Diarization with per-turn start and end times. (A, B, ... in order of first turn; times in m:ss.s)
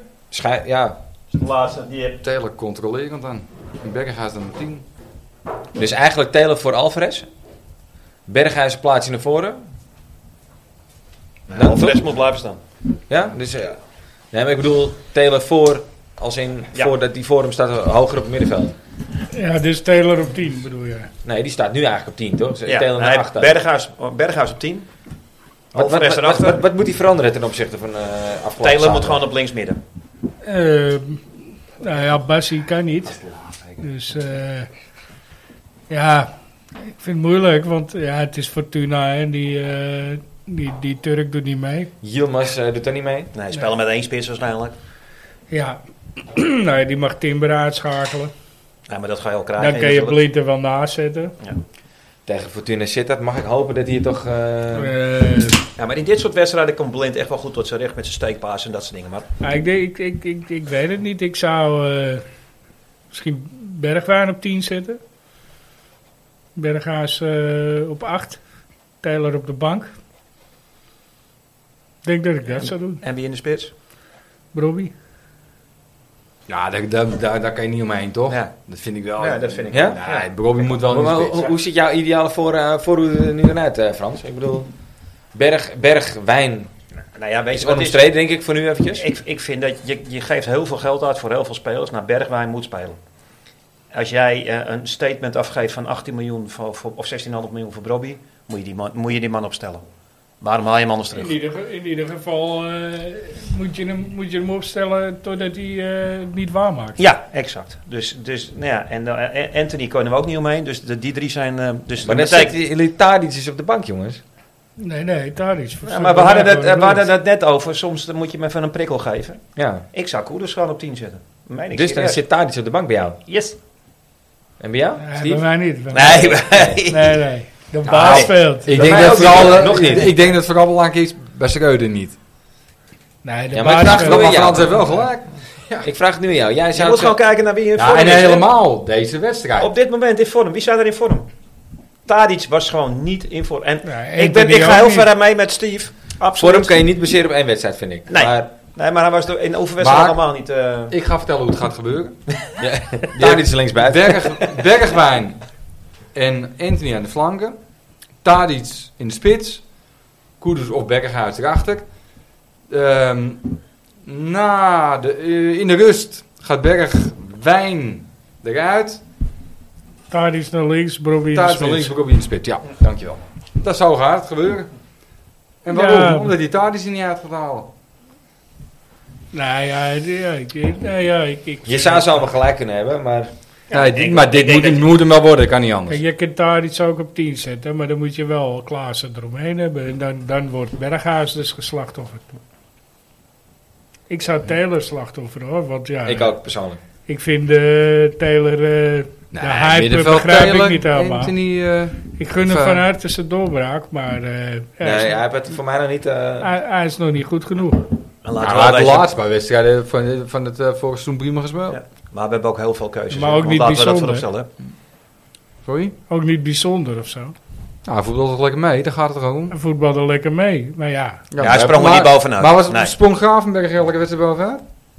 0:00.3-0:01.0 A
0:01.3-0:02.2 B
0:02.2-0:04.8 C
0:05.8-0:07.3 A
0:08.3-0:09.6 A
0:11.5-0:12.6 B
0:11.5-0:12.0 A
0:13.1-0:13.8 A
0:14.3-0:18.8 A
0:19.3-0:21.1 D
0:21.2-0:23.5 A
0:22.6-0:24.9 B
0:25.7-0:26.6 B
0:25.7-0:29.2 A
0:28.6-0:29.8 B
0:30.4-0:31.2 D
0:31.8-0:33.2 D
0:33.8-0:34.7 D
0:35.9-0:36.3 D
0:36.8-0:41.9 D
0:42.0-0:43.3 A
0:43.3-0:44.7 B
0:45.5-0:48.3 D
0:48.9-0:50.2 B
0:49.6-0:51.3 D
0:52.2-0:54.9 A
0:54.7-0:55.7 D
0:55.8-0:59.2 B
0:59.4-1:02.2 D
1:03.1-1:05.0 D
1:06.6-1:08.4 D
1:09.0-1:09.9 D
1:12.0-1:13.0 D
1:12.6-1:13.7 B
1:14.5-1:14.9 D
1:16.5-1:21.5 C
1:18.3-1:18.5 B
1:19.2-1:20.3 B
1:19.7-1:20.0 A
1:20.8-1:24.7 A
1:25.3-1:26.7 A
1:27.1-1:28.1 B
1:27.5-1:29.1 A
1:28.9-1:33.0 B
1:33.9-1:39.8 B
1:40.4-1:41.3 B
1:41.1-1:47.0 D
1:47.0-1:52.5 B
1:52.0-1:54.2 A
1:54.8-1:57.0 D
1:55.8-2:02.2 B
1:59.6-1:59.8 A
2:01.7-2:03.2 A
2:03.3-2:03.6 B
2:04.6-2:06.7 A
2:05.0-2:09.1 D
2:05.9-2:07.2 B
2:07.8-2:12.1 C
2:07.9-2:10.1 B
2:08.7-2:10.1 A
2:13.2-2:14.4 D
2:13.5-2:14.8 A
2:13.8-2:15.9 C
2:15.8-2:17.2 A
2:16.7-2:18.5 B
2:17.8-2:19.7 C
2:19.6-2:21.3 B
2:22.0-2:26.8 B
2:23.8-2:25.1 D
2:26.4-2:28.5 A
2:28.1-2:30.9 B
2:29.8-2:30.2 C
2:30.9-2:32.2 C
2:32.6-2:34.3 A
2:33.1-2:35.4 C
2:36.1-2:37.6 C
2:38.2-2:39.6 C
2:40.4-2:41.8 C
2:42.7-2:49.0 C
2:50.1-2:51.9 D
2:51.3-2:54.7 C
2:55.6-2:57.7 C
2:55.7-2:56.3 D
2:59.3-3:02.1 D
3:01.6-3:03.3 A
3:03.7-3:04.9 B
3:03.7-3:06.0 C
3:05.9-3:12.4 D
3:14.1-3:16.3 D
3:16.0-3:16.8 A
3:17.0-3:21.3 D
3:19.3-3:22.8 C
3:22.2-3:25.2 D
3:24.8-3:26.5 A
3:26.4-3:27.9 D
3:28.2-3:29.1 B
3:28.4-3:31.8 C
3:31.7-3:34.5 B
3:33.1-3:34.2 D
3:35.6-3:35.9 C
3:36.1-3:37.3 D
3:37.8-3:39.5 C
3:39.5-3:41.2 D
3:41.3-3:44.6 C
3:41.4-3:42.9 B